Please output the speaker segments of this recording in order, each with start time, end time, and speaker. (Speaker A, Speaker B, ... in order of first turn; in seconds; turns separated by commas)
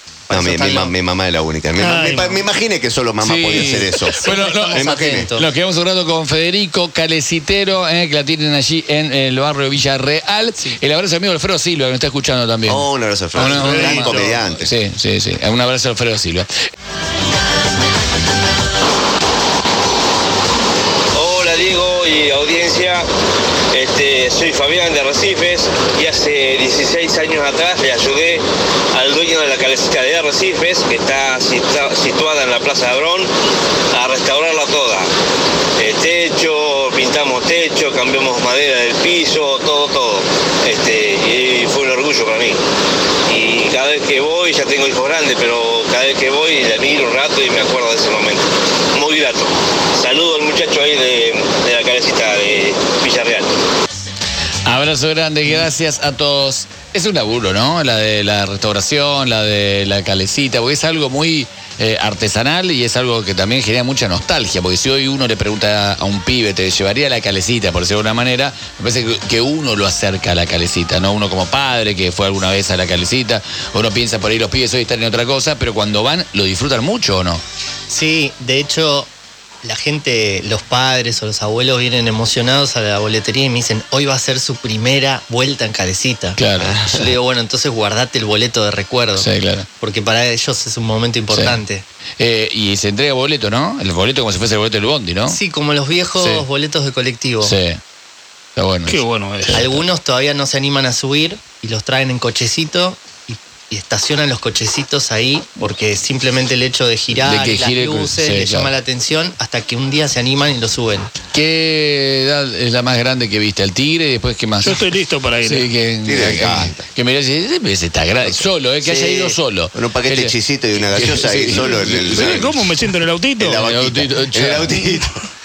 Speaker A: 0.3-0.9, Speaker B: 0.3-5.3, Speaker C: 1.8-2.5, Speaker D: 3.2-16.5, Speaker A: 4.1-5.5, Speaker B: 12.7-14.7, Speaker C: 13.4-14.3, Speaker E: 21.1-23.1, Speaker E: 23.7-33.3, Speaker E: 33.9-35.1, Speaker E: 35.8-42.6, Speaker E: 43.3-53.5, Speaker D: 54.6-77.4, Speaker A: 77.9-79.1, Speaker A: 79.6-89.3, Speaker D: 86.4-86.8, Speaker B: 86.6-87.1, Speaker D: 89.2-89.7, Speaker A: 89.8-91.8, Speaker D: 91.3-91.6, Speaker D: 92.2-95.4, Speaker A: 95.3-97.5, Speaker D: 96.2-96.5, Speaker D: 97.4-97.8, Speaker D: 98.6-99.8, Speaker C: 98.9-99.6, Speaker A: 99.5-111.1, Speaker D: 107.1-108.7, Speaker D: 111.3-114.9, Speaker C: 114.6-115.7, Speaker D: 115.4-122.6, Speaker B: 116.0-116.8, Speaker B: 118.2-122.6, Speaker C: 122.1-123.6, Speaker B: 123.4-125.2, Speaker D: 123.5-125.0